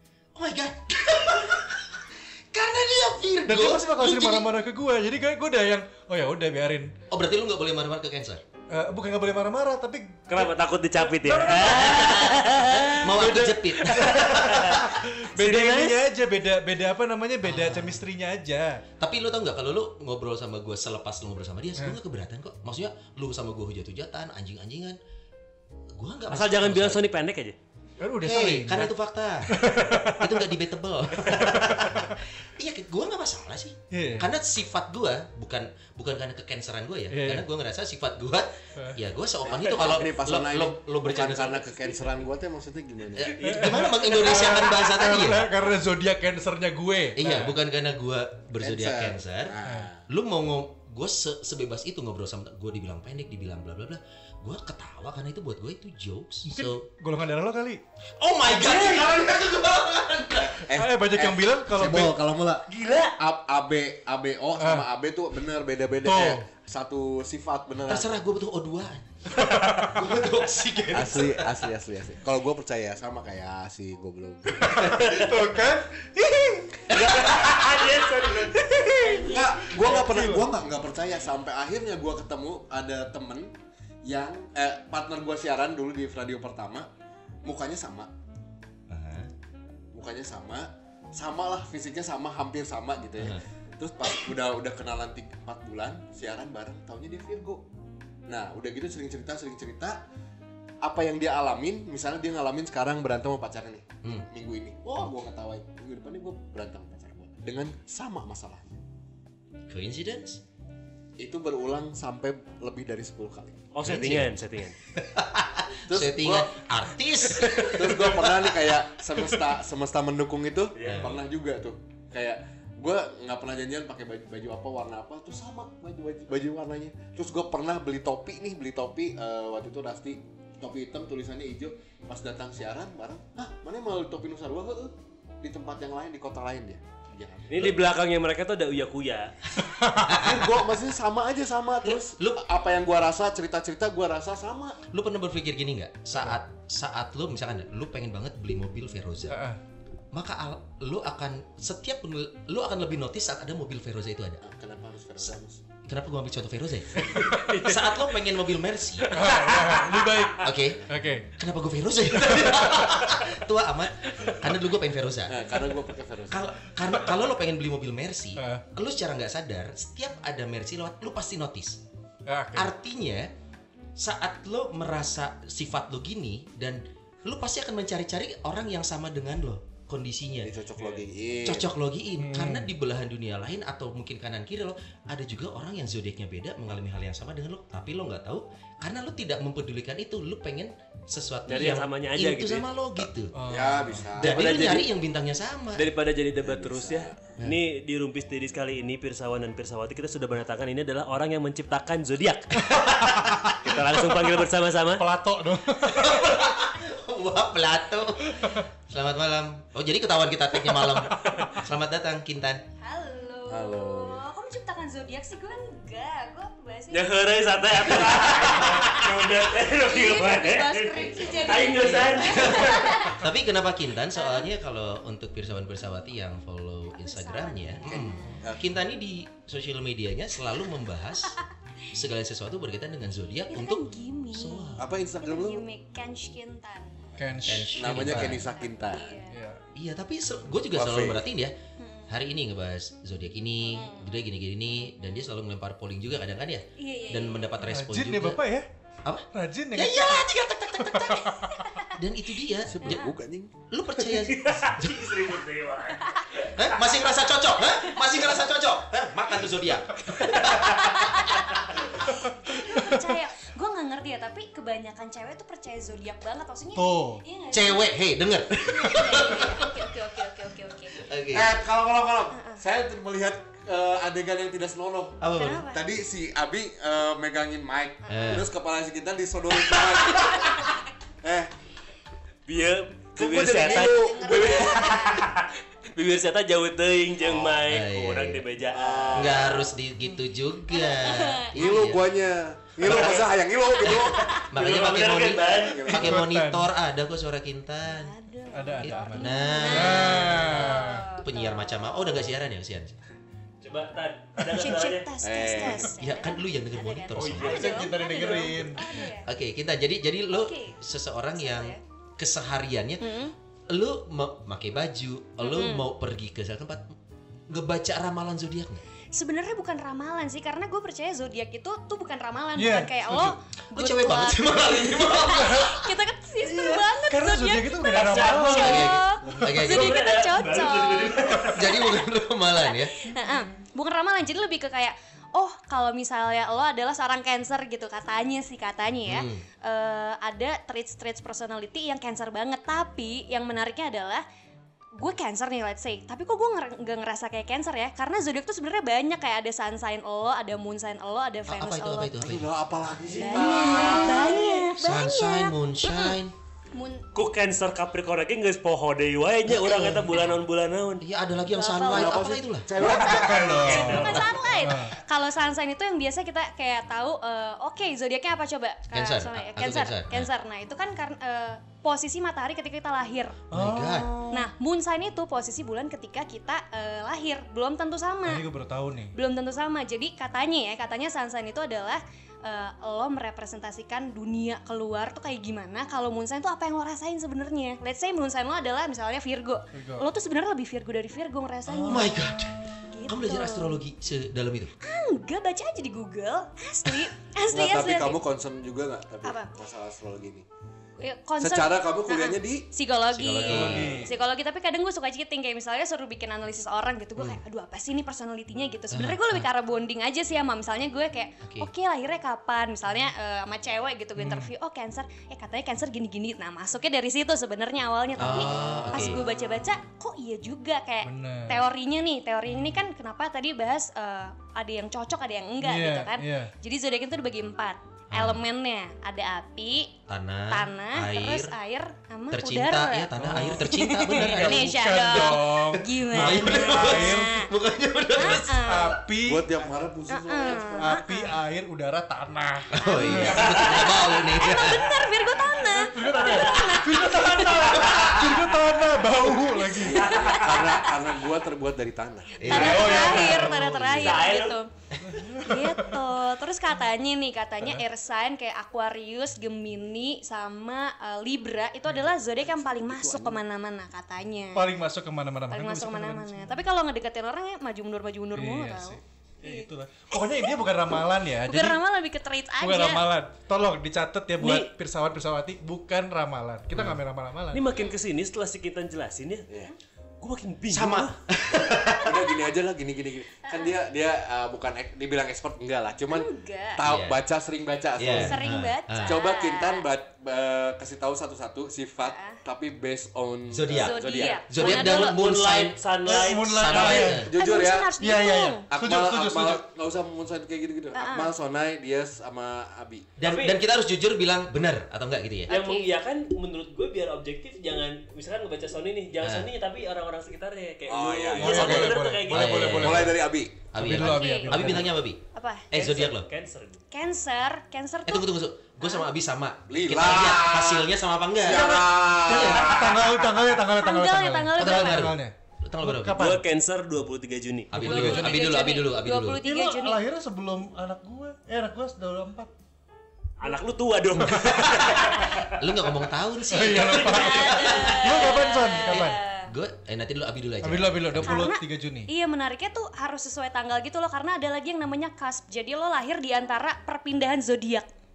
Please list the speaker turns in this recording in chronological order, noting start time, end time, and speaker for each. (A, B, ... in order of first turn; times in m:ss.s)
0:00.4-0:04.5 A
0:03.5-0:06.9 B
0:07.1-0:08.4 A
0:08.7-0:18.8 B
0:10.3-0:16.0 C
0:11.6-0:14.8 A
0:17.4-0:18.0 A
0:19.0-0:25.0 A
0:26.0-0:27.0 A
0:26.3-0:27.6 C
0:28.0-0:28.9 B
0:28.2-0:29.7 A
0:29.5-0:30.4 B
0:30.2-0:42.1 A
0:33.9-0:34.3 B
0:37.1-0:37.5 B
0:39.4-0:43.6 D
0:43.2-0:45.5 A
0:43.4-0:47.5 B
0:43.4-0:44.5 C
0:47.2-0:49.6 A
0:48.6-0:50.0 D
0:49.6-0:49.9 B
0:50.1-0:56.8 A
0:56.5-0:57.8 B
0:58.2-1:00.6 A
0:58.5-0:59.2 B
1:00.4-1:08.1 D
1:00.7-1:02.2 B
1:04.6-1:04.9 B
1:06.0-1:06.4 B
1:07.9-1:09.4 A
1:09.3-1:10.0 B
1:09.9-1:11.6 A
1:10.9-1:15.3 D
1:14.6-1:20.5 B
1:16.9-1:17.2 A
1:17.0-1:17.3 D
1:17.0-1:19.9 C
1:19.2-1:23.5 D
1:24.0-1:26.9 D
1:27.4-1:28.1 D
1:28.9-1:29.3 A
1:29.9-1:37.6 D
1:38.3-1:40.0 D
1:40.8-1:48.8 D
1:49.7-1:50.4 A
1:51.2-1:53.7 D
1:53.7-1:54.8 C
1:53.8-1:54.4 A
1:55.0-1:58.5 A
1:55.9-1:56.6 D
1:57.4-2:17.8 D
2:00.8-2:01.2 C
2:00.8-2:01.2 A
2:17.5-2:19.4 C
2:19.6-2:20.4 B
2:20.1-2:20.4 A
2:20.1-2:24.8 D
2:21.8-2:22.5 A
2:24.9-2:29.4 A
2:29.3-2:29.6 B
2:30.1-2:34.4 A
2:34.4-2:35.6 D
2:35.9-2:39.2 A
2:37.0-2:37.6 B
2:37.2-2:37.9 C
2:39.1-2:40.4 C
2:39.1-2:41.3 B
2:40.4-2:45.6 A
2:42.2-2:42.9 B
2:45.3-2:46.5 D
2:46.3-2:51.8 A
2:48.4-2:48.6 B
2:52.3-2:52.7 B
2:52.6-2:53.3 A
2:54.0-3:00.5 A
3:00.4-3:01.7 D
3:01.4-3:13.3 A
3:02.2-3:02.7 B
3:11.5-3:12.7 C
3:13.4-3:14.1 B
3:13.4-3:14.9 D
3:14.2-3:15.9 A
3:14.2-3:14.9 C
3:15.8-3:22.7 C
3:16.4-3:17.2 D
3:22.7-3:24.2 B
3:22.9-3:23.2 A
3:23.6-3:25.0 C
3:25.0-3:26.5 B
3:25.9-3:32.6 A
3:28.4-3:28.6 B
3:32.8-3:37.2 E
3:33.5-3:34.2 D
3:36.9-3:42.9 C
3:37.8-3:43.2 E
3:41.2-3:42.0 D
3:42.0-3:51.4 A
3:44.1-3:44.5 E
3:46.9-3:48.5 E
3:47.9-3:48.8 D
3:51.9-3:54.9 A
3:53.5-3:57.1 E
3:54.8-3:55.6 D
3:57.2-3:58.3 B
3:57.4-3:58.5 A
3:57.8-3:59.1 D
3:58.2-3:59.4 E
3:59.3-3:59.6 B
3:59.8-4:01.5 A
4:00.7-4:01.2 D
4:01.8-4:02.1 E
4:02.1-4:08.4 A
4:03.6-4:04.2 E
4:06.8-4:07.5 E
4:07.6-4:08.7 B
4:09.0-4:11.3 A
4:09.3-4:11.6 B
4:11.1-4:12.0 E
4:11.9-4:13.1 A
4:12.6-4:13.6 D
4:12.8-4:13.1 E
4:13.7-4:15.0 A
4:14.0-4:16.5 C
4:16.0-4:16.3 E
4:16.6-4:21.4 A
4:17.6-4:18.1 E
4:20.1-4:28.0 E
4:22.4-4:23.1 B
4:26.8-4:27.2 B
4:27.5-4:29.9 A
4:28.6-4:31.1 E
4:30.9-4:31.6 A
4:31.3-4:41.5 D
4:32.3-4:32.6 E
4:35.2-4:35.6 A
4:35.3-4:35.8 E
4:38.1-4:38.4 E
4:38.1-4:38.5 A
4:42.5-4:49.6 C
4:43.2-4:45.0 D
4:43.5-4:45.3 E
4:47.2-4:47.6 D
4:47.6-4:48.5 A
4:48.7-4:49.7 D
4:49.1-4:52.2 A
4:50.7-4:51.8 E
4:51.5-4:54.4 D
4:52.8-4:53.3 C
4:52.8-4:53.2 A
4:53.8-4:58.1 A
4:53.9-4:54.5 E
4:54.5-4:55.9 C
4:55.6-4:56.2 D
4:55.9-4:56.7 B
4:57.9-5:02.2 E
4:58.5-5:01.1 B
4:58.8-5:03.0 A
5:03.6-5:05.1 C
5:04.5-5:09.3 E
5:05.2-5:06.0 D
5:05.9-5:07.6 A
5:07.2-5:09.1 B
5:07.2-5:08.5 C
5:09.2-5:13.2 A
5:10.3-5:10.8 E
5:11.4-5:11.8 E
5:13.0-5:13.3 E
5:13.7-5:16.9 A
5:15.4-5:15.9 E
5:17.5-5:18.8 A
5:19.1-5:31.9 E
5:22.6-5:23.4 B
5:23.7-5:25.9 A
5:26.4-5:28.9 B
5:27.9-5:28.9 C
5:28.5-5:30.0 A
5:29.4-5:31.9 C
5:31.5-5:33.1 A
5:32.6-5:44.2 E
5:39.1-5:39.4 A
5:45.0-5:52.2 E
5:51.5-5:52.5 A
5:52.2-5:54.5 D
5:53.1-5:54.4 C
5:53.1-5:56.2 E
5:54.7-5:56.3 A
5:56.7-5:57.1 E
5:57.1-6:01.0 C
5:59.5-6:00.4 A
6:01.0-6:02.7 A
6:01.5-6:13.4 E
6:01.7-6:04.1 D
6:02.8-6:04.4 C
6:02.9-6:05.0 B
6:04.0-6:04.3 A
6:08.9-6:10.3 A
6:13.5-6:14.4 B
6:13.5-6:14.2 A
6:14.3-6:18.4 E
6:18.2-6:19.2 B
6:19.1-6:32.2 E
6:29.7-6:30.1 B
6:31.7-6:32.8 B
6:31.8-6:34.7 A
6:32.9-6:33.8 E
6:34.8-6:38.2 E
6:37.5-6:40.5 D
6:39.2-6:39.5 E
6:41.0-7:17.5 E
6:41.4-6:42.7 D
6:43.1-6:44.1 A
6:43.5-6:44.1 B
6:48.9-6:49.5 A
6:51.4-6:51.7 A
6:54.2-6:54.5 B
6:58.2-6:59.3 A
7:01.0-7:01.6 B
7:02.5-7:02.8 B
7:05.6-7:06.5 B
7:08.1-7:08.4 A
7:10.1-7:11.6 A
7:12.3-7:15.4 A
7:13.1-7:17.4 B
7:16.0-7:18.8 A
7:18.1-7:19.0 E
7:18.6-7:19.8 B
7:19.2-7:21.0 D
7:20.1-7:21.4 E
7:20.8-7:23.4 B
7:22.7-7:25.1 A
7:22.8-7:27.8 E
7:23.1-7:24.0 D
7:25.6-7:30.2 B
7:26.0-7:28.6 C
7:27.9-7:28.4 A
7:29.3-7:31.3 E
7:29.8-7:32.9 D
7:30.0-7:30.8 C
7:32.4-7:34.2 A
7:32.4-7:34.7 E
7:32.5-7:34.6 C
7:32.5-7:33.6 B
7:35.1-7:36.0 B
7:35.4-7:44.7 E
7:42.4-7:43.4 D
7:44.5-7:46.6 B
7:45.5-7:50.5 E
7:48.4-7:51.8 B
7:51.4-7:53.1 E
7:52.6-7:57.6 B
7:54.4-7:54.7 C
7:56.7-7:57.0 A
7:57.5-7:59.5 C
7:57.7-7:58.0 E
8:00.2-8:01.2 C
8:00.7-8:02.2 A
8:02.0-8:08.4 D
8:03.4-8:03.8 E
8:06.1-8:06.8 E
8:06.8-8:07.2 A
8:08.0-8:09.2 A
8:08.2-8:09.9 E
8:09.0-8:14.4 D
8:12.0-8:12.4 E
8:13.5-8:15.8 A
8:13.7-8:15.2 E
8:14.4-8:17.1 C
8:16.0-8:17.3 B
8:16.6-8:17.3 A
8:16.8-8:17.9 D
8:17.3-8:18.6 E
8:18.0-8:19.6 B
8:18.7-8:23.1 D
8:20.9-8:21.3 E
8:23.2-8:25.5 A
8:23.2-8:23.6 C
8:25.5-8:26.0 E
8:25.5-8:33.2 C
8:29.2-8:29.5 A
8:30.9-8:32.0 D
8:31.4-8:33.1 B
8:32.3-8:35.2 A
8:32.8-8:33.7 D
8:33.8-8:35.0 B
8:34.0-8:35.7 E
8:35.7-8:36.3 A
8:35.7-8:36.8 C
8:36.9-8:39.1 E
8:38.1-8:42.8 A
8:39.7-8:43.0 D
8:41.4-8:46.4 B
8:43.8-8:45.0 E
8:44.6-8:46.2 A
8:46.2-8:48.1 C
8:47.7-8:49.4 A
8:47.7-8:48.6 B
8:47.8-8:50.0 E
8:49.4-8:52.5 B
8:53.4-8:55.6 C
8:54.6-8:54.9 B
8:55.5-8:58.2 A
8:56.5-8:59.2 B
8:56.7-8:59.5 E
8:58.8-9:01.5 A
9:00.6-9:02.1 B
9:01.2-9:07.9 E